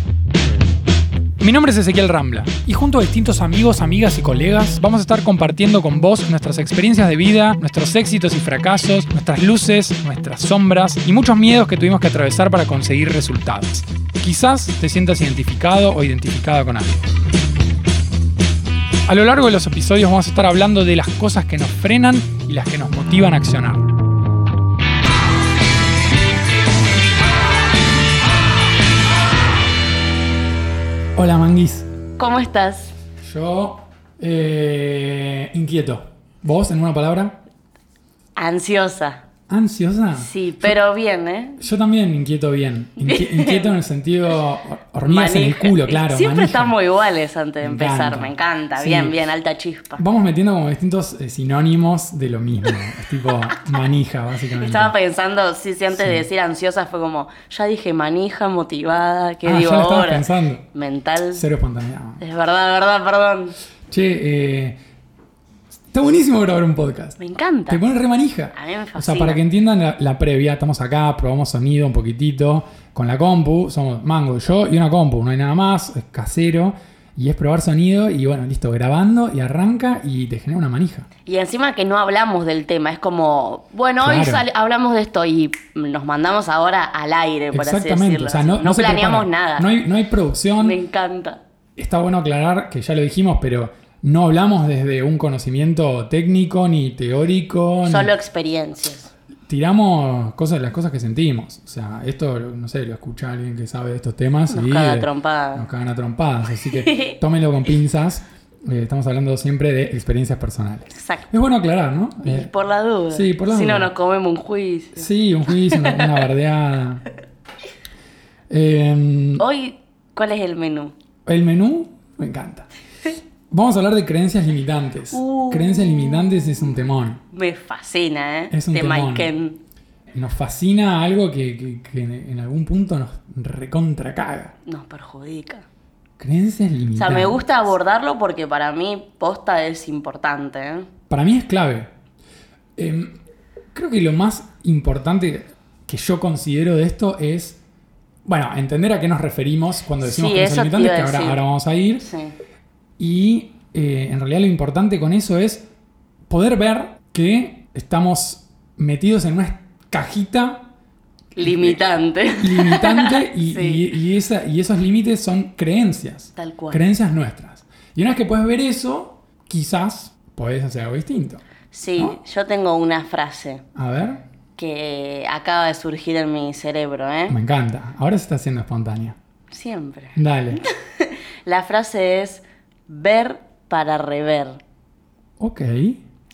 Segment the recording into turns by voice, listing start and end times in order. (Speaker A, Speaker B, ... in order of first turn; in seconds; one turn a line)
Speaker A: 1.4-17.0
Speaker A: 19.1-23.9
Speaker A: 31.1-31.9
Speaker B: 32.2-32.9
Speaker A: 33.2-37.4
Speaker B: 38.4-39.2
Speaker A: 39.5-40.8
Speaker B: 40.1-41.6
Speaker A: 41.6-46.7
Speaker B: 43.0-43.7
Speaker B: 45.0-50.0
Speaker A: 47.6-49.1
Speaker A: 50.0-54.9
Speaker B: 54.6-61.4
Speaker A: 55.9-56.2
Speaker A: 59.4-60.6
Speaker A: 61.3-62.2
Speaker B: 62.2-63.5
Speaker A: 63.9-64.8
Speaker A: 65.9-67.2
Speaker B: 67.2-67.8
Speaker A: 67.7-81.1
Speaker B: 68.5-69.4
Speaker B: 81.2-89.7
Speaker A: 84.0-84.4
Speaker A: 87.5-90.8
Speaker B: 90.6-91.4
Speaker A: 91.8-98.1
Speaker B: 97.8-99.1
Speaker A: 99.5-112.5
Speaker B: 104.5-105.6
Speaker B: 106.7-107.2
Speaker B: 110.9-111.3
Speaker B: 112.2-116.2
Speaker A: 113.1-113.9
Speaker A: 115.0-117.0
Speaker A: 118.5-119.4
Speaker B: 119.4-120.9
Speaker A: 121.2-122.7
Speaker A: 123.5-127.2
Speaker B: 125.1-126.8
Speaker B: 127.3-129.6
Speaker A: 128.5-129.3
Speaker A: 130.1-134.5
Speaker B: 134.6-135.7
Speaker A: 136.2-137.4
Speaker B: 136.9-140.9
Speaker A: 141.1-141.9
Speaker A: 142.8-143.2
Speaker A: 143.7-147.6
Speaker A: 148.2-152.1
Speaker B: 150.0-151.4
Speaker B: 152.0-152.3
Speaker A: 153.0-155.7
Speaker A: 156.3-160.7
Speaker B: 161.3-163.8
Speaker A: 161.4-161.8
Speaker A: 162.4-171.4
Speaker B: 166.3-166.8
Speaker B: 171.7-173.6
Speaker A: 173.7-174.2
Speaker B: 174.6-177.4
Speaker A: 177.3-179.2
Speaker B: 179.5-184.6
Speaker A: 180.2-180.6
Speaker A: 185.4-186.0